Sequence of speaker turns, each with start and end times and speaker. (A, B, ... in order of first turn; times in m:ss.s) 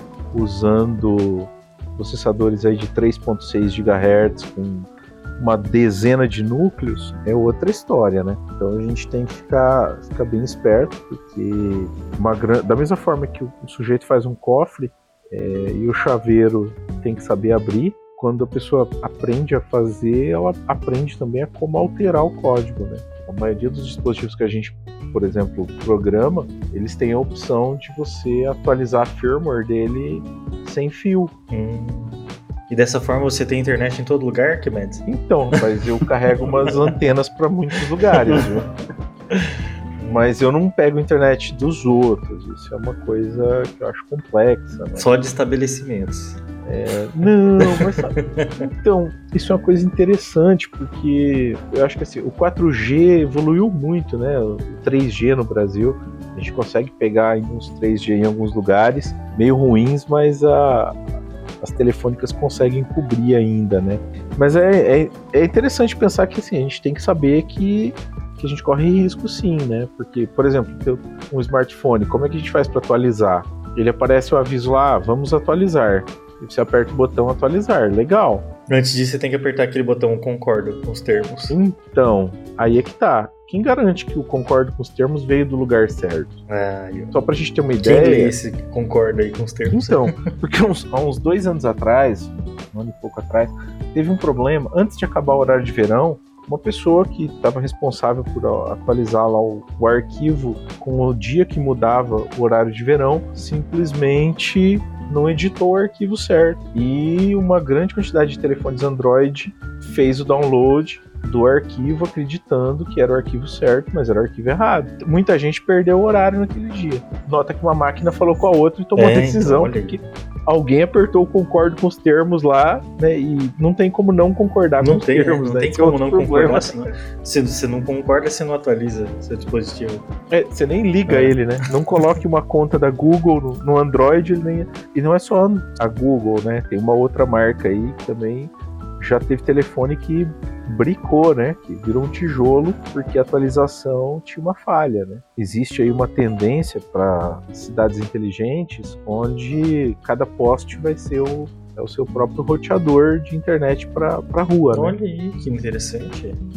0:00.3-0:31.3 A
0:31.5-0:35.0 B
0:35.0-0:38.6 A
0:36.4-0:36.9 B
0:39.3-0:40.3 B
0:40.1-0:45.1 A
0:45.0-0:46.4 B
0:46.6-1:01.0 A
0:47.2-0:48.6 B
1:01.6-1:18.4 A
1:18.7-1:21.6 B
1:21.5-1:26.4 A
1:26.5-1:27.2 B
1:27.1-1:28.3 A
1:27.8-1:30.2 B
1:29.6-2:06.8 A
1:59.0-2:00.0 B
2:04.8-2:10.0 B
2:10.3-2:34.9 A
2:11.1-2:11.4 B
2:34.7-2:36.4 B